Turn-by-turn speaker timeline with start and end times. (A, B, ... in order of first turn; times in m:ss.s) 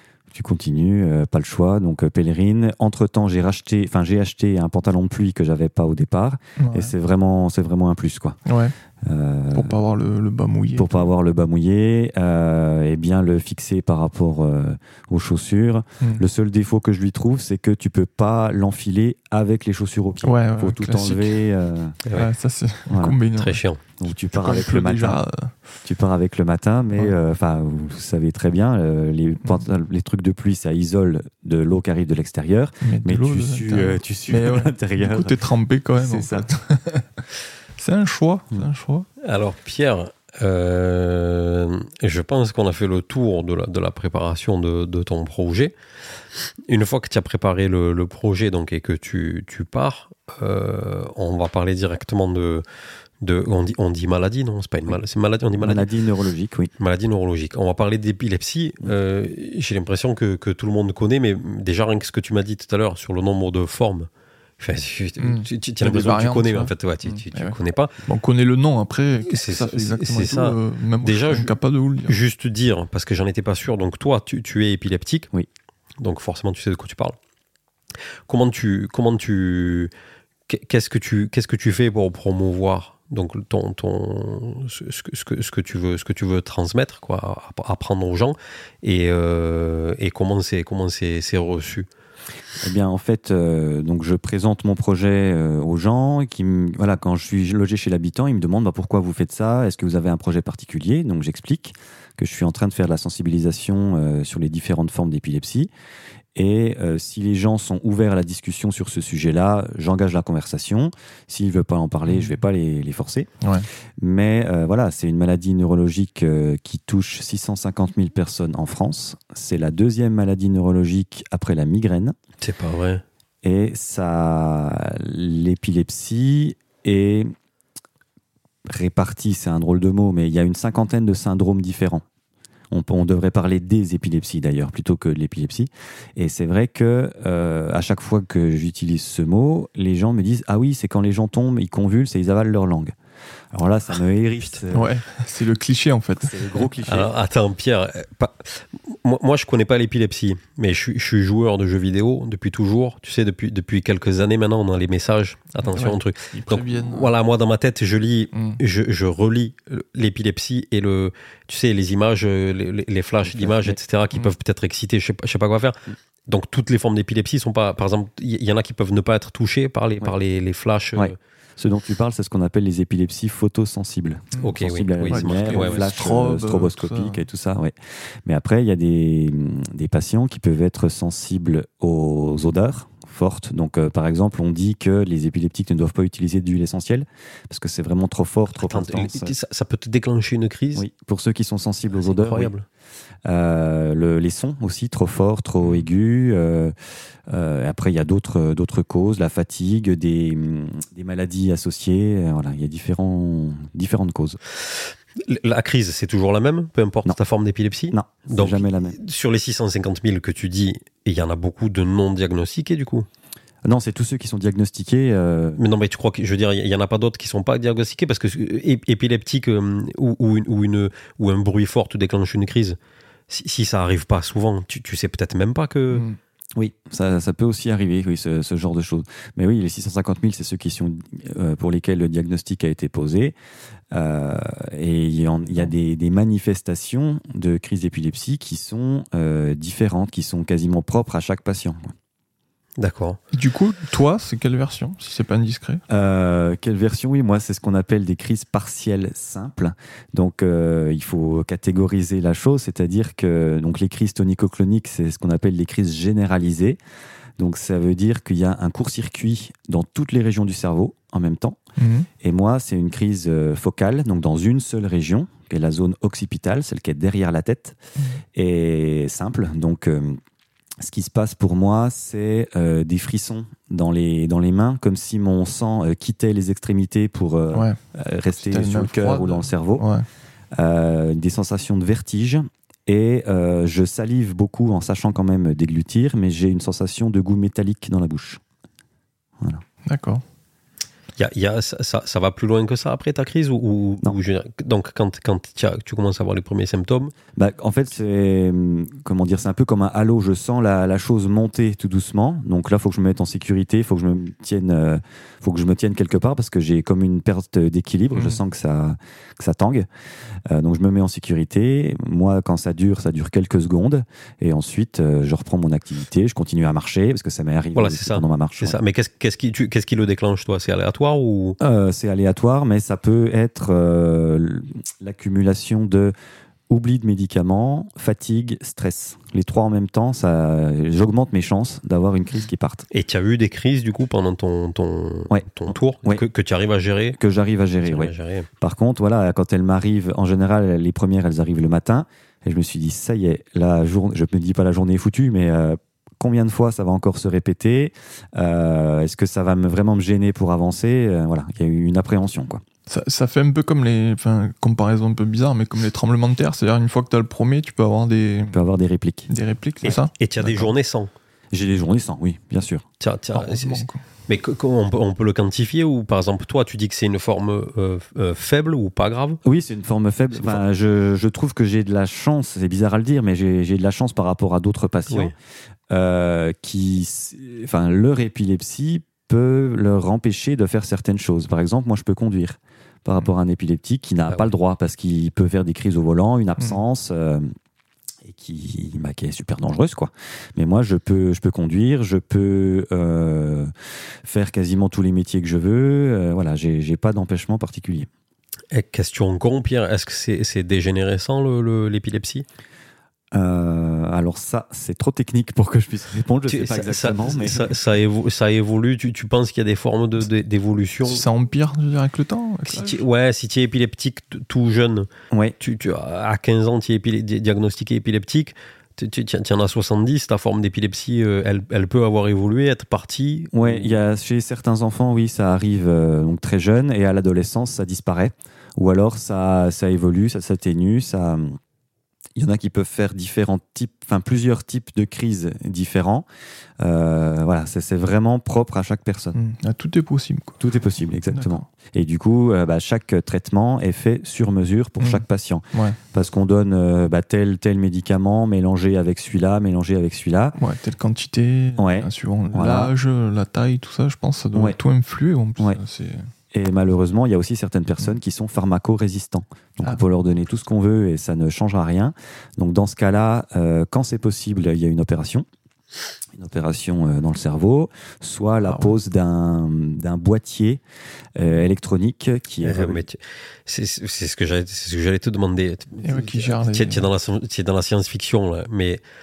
0:00.3-0:08.4 A
0:06.6-0:06.9 B
0:08.5-0:08.7 B
0:09.0-0:09.8 A
0:09.5-0:11.1 B
0:10.8-0:22.0 A
0:16.0-0:16.2 B
0:20.2-0:21.4 B
0:22.0-0:22.3 C
0:22.1-0:23.6 B
0:22.9-0:23.2 A
0:23.4-0:23.8 C
0:24.0-0:25.2 A
0:24.4-0:25.5 B
0:25.8-0:35.4 A
0:32.8-0:37.2 B
0:36.0-0:36.5 A
0:37.8-0:39.1 B
0:39.2-0:45.7 C
0:46.7-0:52.6 C
0:53.2-0:55.9 C
0:55.6-0:56.7 A
0:56.8-1:04.1 C
1:04.6-1:08.0 C
1:05.2-1:12.2 B
1:09.3-1:15.3 C
1:16.0-1:17.2 C
1:18.3-1:19.9 C
1:20.5-1:31.9 C
1:32.6-1:45.7 A
1:46.4-1:53.3 A
1:53.4-1:53.7 B
1:54.0-2:02.2 A
2:02.4-2:03.0 C
2:03.4-2:07.3 A
2:08.7-2:12.0 A
2:12.7-2:23.0 A
2:23.5-2:24.9 A
2:24.7-2:26.6 B
2:26.2-2:27.1 A
2:26.9-2:51.2 C
2:35.6-2:37.1 B
2:38.3-2:38.6 B
2:43.3-2:43.8 A
2:51.0-2:57.7 A
2:54.4-2:56.0 C
2:55.1-2:57.2 B
2:58.3-3:09.3 A
3:08.6-3:10.9 C
3:10.8-3:12.5 A
3:12.0-3:12.6 C
3:13.3-3:16.7 A
3:17.3-3:24.4 A
3:24.7-3:33.1 C
3:27.9-3:29.0 A
3:33.6-3:35.6 A
3:35.6-3:42.8 C
3:43.3-3:46.0 C
3:45.9-3:46.2 B
3:46.6-3:53.4 A
3:53.9-4:01.9 A
4:02.8-4:03.2 C
4:03.3-4:05.8 B
4:05.9-4:16.8 A
4:17.4-4:21.6 A
4:21.8-4:22.1 B
4:22.2-4:27.8 A
4:28.0-4:28.2 B
4:28.3-4:30.2 A
4:30.8-4:39.8 A
4:37.5-4:37.8 B
4:38.4-4:40.1 B
4:40.6-4:48.4 A
4:49.9-4:50.2 B
4:51.2-4:57.1 C
4:57.4-5:09.9 A
5:08.2-5:08.4 B
5:10.5-5:18.8 A
5:17.8-5:21.6 C
5:21.6-5:26.1 A
5:26.7-5:32.9 A
5:32.9-5:37.2 C
5:35.3-5:36.2 A
5:37.2-5:52.6 A
5:37.8-5:38.5 C
5:52.9-5:58.6 B
5:58.5-5:59.3 A
5:59.3-6:00.7 B
5:59.8-6:01.1 C
6:01.5-6:02.8 A
6:03.0-6:09.4 C
6:03.3-6:04.0 B
6:09.4-6:15.3 A
6:10.4-6:10.6 C
6:15.1-6:15.3 C
6:15.9-6:27.5 A
6:28.2-6:33.7 A
6:34.2-6:38.1 A
6:38.7-6:42.5 C
6:43.4-6:47.8 A
6:46.5-6:51.3 C
6:51.0-6:53.0 B
6:52.7-6:55.1 C
6:55.3-6:55.6 A
6:55.6-7:04.0 C
7:03.5-7:11.6 A
7:12.4-7:16.3 A
7:16.8-7:19.4 A
7:19.3-7:20.6 B
7:20.6-7:30.6 A
7:21.3-7:21.6 B
7:25.0-7:26.0 B
7:30.6-7:36.3 B
7:31.8-7:32.9 A
7:36.5-7:45.5 A
7:46.4-7:50.8 A
7:51.4-7:53.0 A
7:52.6-7:59.0 C
7:56.0-7:57.1 B